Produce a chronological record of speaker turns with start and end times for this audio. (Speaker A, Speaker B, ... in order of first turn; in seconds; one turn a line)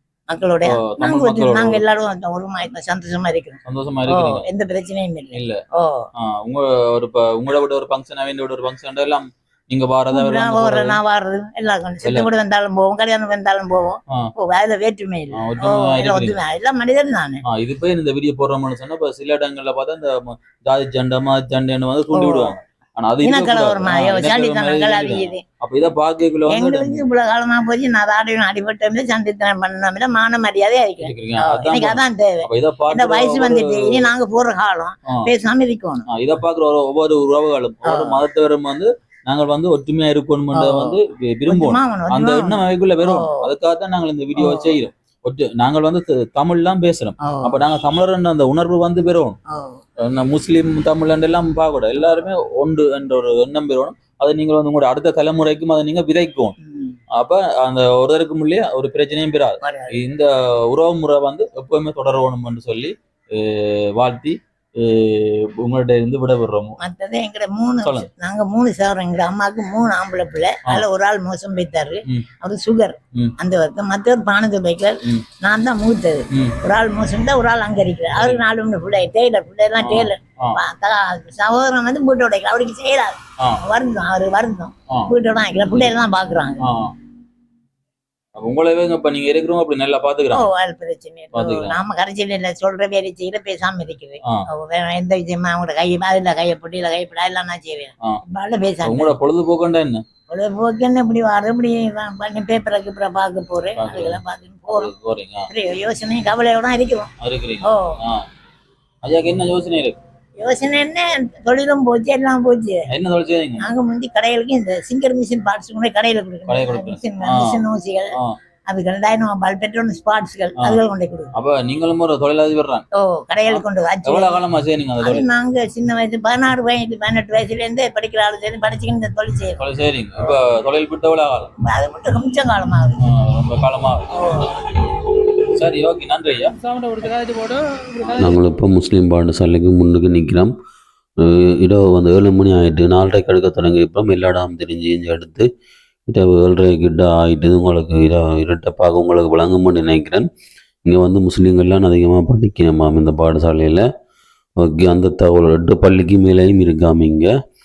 Speaker A: 0.3-6.1
Speaker B: 0.7-1.8
Speaker B: 3.6-4.5
Speaker B: 5.3-5.6
Speaker B: 6.2-11.0
Speaker A: 10.1-17.4
Speaker B: 15.3-16.4
Speaker B: 17.4-27.0
Speaker A: 22.1-22.6
Speaker A: 23.2-25.4
Speaker A: 26.5-36.1
Speaker B: 31.0-34.1
Speaker B: 36.1-49.4
Speaker A: 37.8-38.2
Speaker A: 40.5-43.5
Speaker A: 44.4-44.8
Speaker A: 47.2-47.6
Speaker A: 49.5-49.8
Speaker B: 50.0-56.5
Speaker A: 56.6-57.0
Speaker B: 57.1-66.8
Speaker A: 59.6-60.0
Speaker A: 66.8-86.7
Speaker B: 67.8-68.1
Speaker B: 76.3-76.6
Speaker B: 78.1-78.4
Speaker B: 79.8-80.6
Speaker B: 86.6-86.9
Speaker B: 88.4-90.5
Speaker A: 90.3-99.2
Speaker B: 91.3-91.8
Speaker B: 98.8-100.0
Speaker A: 100.3-104.9
Speaker B: 103.8-105.5
Speaker A: 105.5-107.1
Speaker B: 107.2-108.2
Speaker A: 107.6-108.0
Speaker B: 109.0-110.0
Speaker A: 110.4-112.9
Speaker B: 112.9-113.7
Speaker A: 113.6-118.2
Speaker B: 116.5-117.6
Speaker A: 118.7-121.3
Speaker B: 121.3-122.8
Speaker A: 122.9-124.4
Speaker B: 123.5-125.3
Speaker A: 125.0-129.6
Speaker B: 129.6-131.5
Speaker A: 131.6-133.0
Speaker B: 133.0-134.2
Speaker A: 134.2-134.5
Speaker B: 135.5-136.5
Speaker C: 138.2-140.6
Speaker C: 141.2-145.5
Speaker C: 146.1-150.3
Speaker C: 150.8-153.9
Speaker C: 154.6-157.3